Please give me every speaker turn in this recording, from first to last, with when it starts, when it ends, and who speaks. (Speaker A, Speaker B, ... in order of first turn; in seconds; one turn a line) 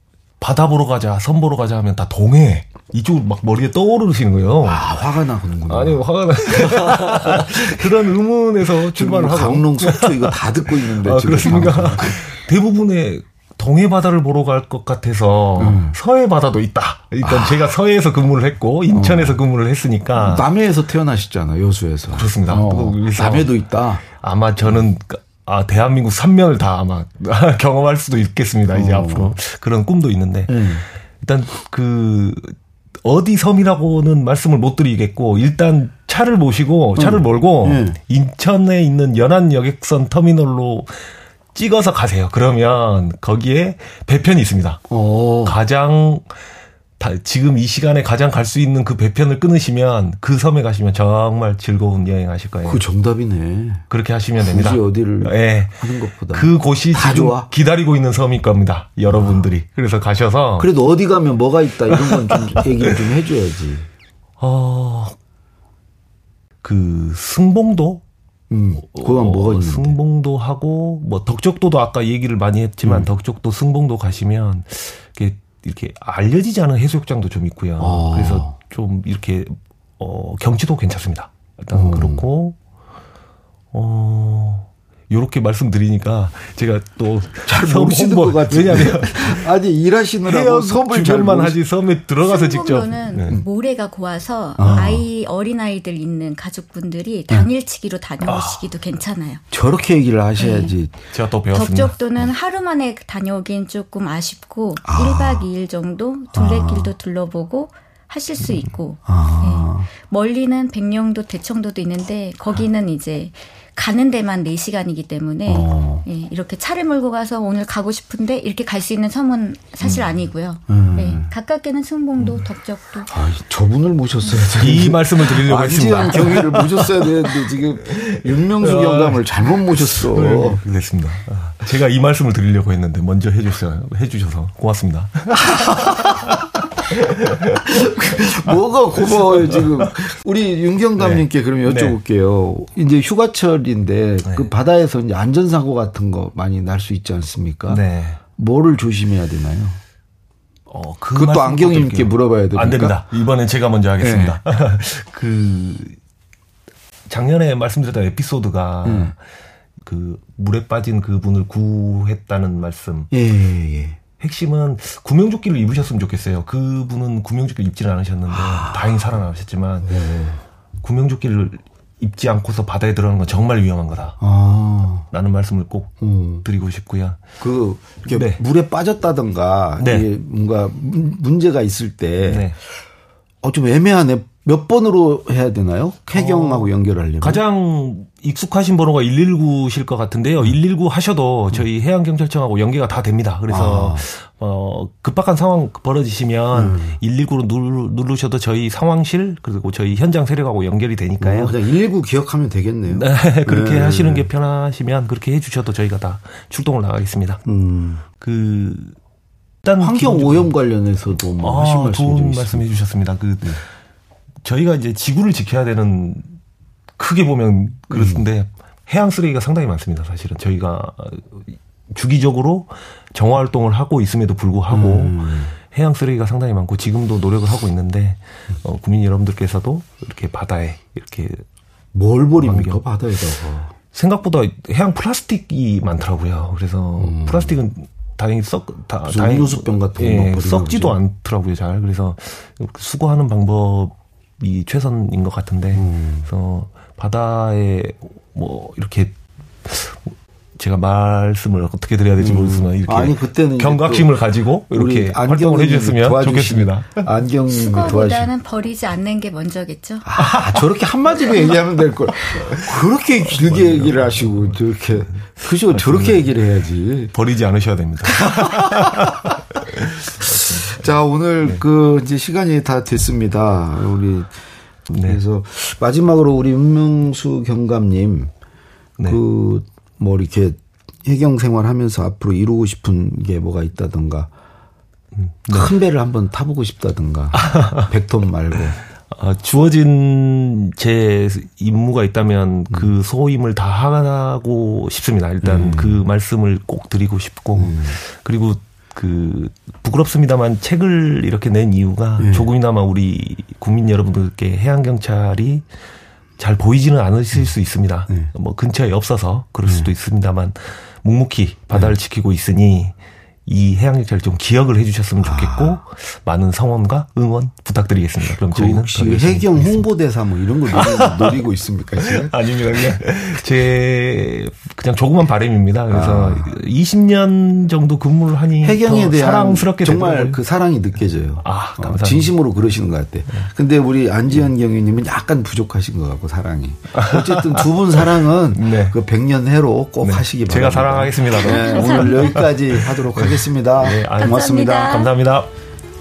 Speaker A: 0.4-5.0
Speaker B: 4.6-8.1
Speaker A: 5.7-20.4
Speaker B: 8.8-12.2
Speaker B: 15.6-16.0
Speaker B: 17.2-17.7
Speaker B: 18.9-19.4
Speaker B: 20.1-24.0
Speaker A: 22.1-23.5
Speaker A: 24.1-41.0
Speaker B: 28.7-29.3
Speaker B: 30.5-30.8
Speaker B: 37.0-38.0
Speaker A: 41.5-44.8
Speaker B: 44.9-45.6
Speaker A: 45.4-46.3
Speaker A: 47.0-52.8
Speaker B: 52.6-53.8
Speaker A: 53.9-60.7
Speaker B: 54.4-57.5
Speaker B: 59.1-59.5
Speaker B: 60.6-63.9
Speaker A: 61.9-63.1
Speaker A: 64.4-65.1
Speaker A: 66.6-68.0
Speaker B: 68.5-70.0
Speaker A: 68.8-82.5
Speaker B: 77.8-78.5
Speaker B: 81.7-82.2
Speaker A: 83.7-89.4
Speaker B: 87.5-91.6
Speaker A: 90.2-93.4
Speaker C: 92.2-99.4
Speaker B: 94.6-95.0
Speaker A: 98.2-98.7
Speaker B: 99.5-100.9
Speaker C: 100.4-100.7
Speaker A: 101.1-102.3
Speaker C: 101.5-123.1
Speaker B: 104.8-105.5
Speaker B: 106.3-106.9
Speaker B: 109.0-109.9
Speaker B: 115.5-116.0
Speaker B: 119.8-120.1
Speaker B: 120.7-121.3
Speaker B: 123.1-130.6
Speaker A: 124.4-139.9
Speaker B: 137.6-147.8
Speaker A: 141.0-142.0
Speaker A: 147.7-148.2
Speaker B: 148.4-149.8
Speaker A: 150.7-156.0
Speaker B: 151.1-153.0
Speaker B: 154.0-154.4
Speaker A: 157.1-159.2
Speaker B: 158.8-159.1
Speaker A: 159.8-163.1
Speaker B: 163.1-164.0
Speaker A: 164.2-170.0
Speaker B: 168.3-169.0
Speaker B: 169.8-170.4
Speaker A: 170.8-174.2
Speaker B: 174.2-175.1
Speaker A: 175.1-177.3
Speaker B: 176.0-176.4
Speaker B: 177.4-182.5
Speaker A: 178.1-178.4
Speaker A: 179.8-180.1
Speaker A: 182.2-182.6
Speaker B: 183.4-187.4
Speaker A: 186.1-201.6
Speaker B: 193.5-194.0
Speaker B: 196.5-197.0
Speaker B: 201.2-204.3
Speaker A: 202.9-207.4
Speaker B: 207.4-208.0
Speaker A: 208.2-208.9
Speaker A: 209.6-210.5
Speaker B: 209.8-212.6
Speaker A: 211.4-213.6
Speaker A: 214.4-216.3
Speaker A: 217.0-231.4
Speaker B: 217.9-218.2
Speaker B: 224.7-225.5
Speaker B: 231.9-233.7
Speaker A: 232.4-232.8
Speaker A: 233.9-257.0
Speaker B: 237.0-237.6
Speaker B: 239.0-241.0
Speaker B: 245.7-246.3
Speaker B: 252.2-254.2
Speaker B: 254.7-258.3
Speaker C: 257.5-260.1
Speaker B: 260.0-267.1
Speaker A: 260.1-260.6
Speaker A: 262.2-262.7
Speaker A: 263.3-266.3
Speaker A: 267.1-270.9
Speaker B: 268.1-269.4
Speaker B: 270.2-278.3
Speaker A: 274.9-275.2
Speaker B: 279.0-284.3
Speaker A: 285.1-285.7
Speaker B: 285.5-288.8
Speaker A: 287.3-287.9
Speaker A: 289.1-305.6
Speaker B: 295.4-296.0
Speaker B: 297.6-298.0
Speaker B: 302.2-302.5
Speaker A: 306.4-312.9
Speaker B: 309.6-309.9
Speaker A: 313.4-319.9
Speaker B: 315.2-315.8
Speaker B: 318.4-322.3
Speaker A: 320.7-321.4
Speaker A: 322.0-330.4
Speaker B: 325.9-326.5
Speaker B: 328.6-344.9
Speaker A: 331.4-332.3
Speaker A: 336.9-339.0
Speaker A: 340.0-345.5
Speaker C: 341.5-342.1
Speaker C: 344.2-345.1